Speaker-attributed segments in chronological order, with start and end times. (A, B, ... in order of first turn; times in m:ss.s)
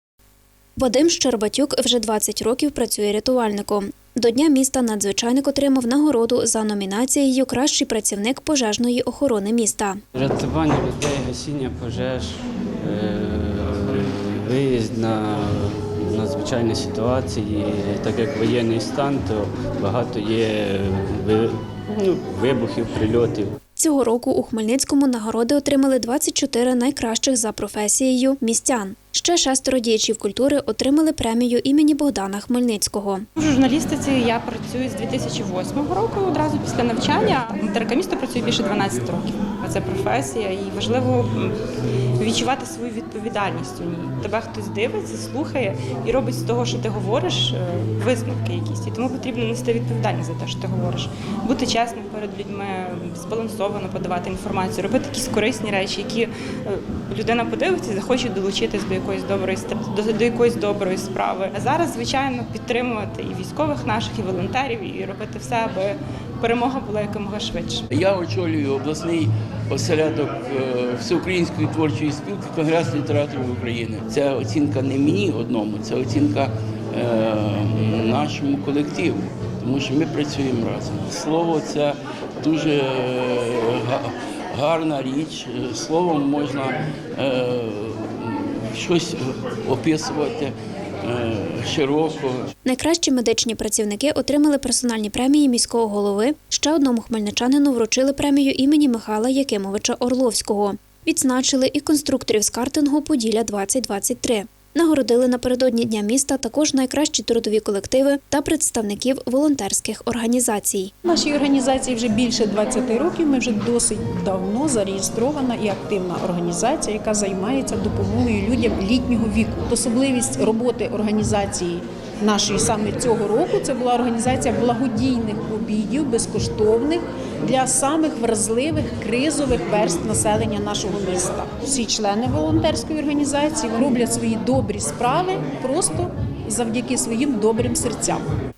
0:00.8-0:10.0 A
0:10.2-0:12.3 B
0:12.8-0:21.4 B
0:22.0-0:23.4 B
0:23.8-0:33.2 A
0:33.4-0:41.6 C
0:42.2-1:07.8 C
1:07.9-1:32.5 D
1:32.6-1:50.9 A
1:51.0-2:18.2 E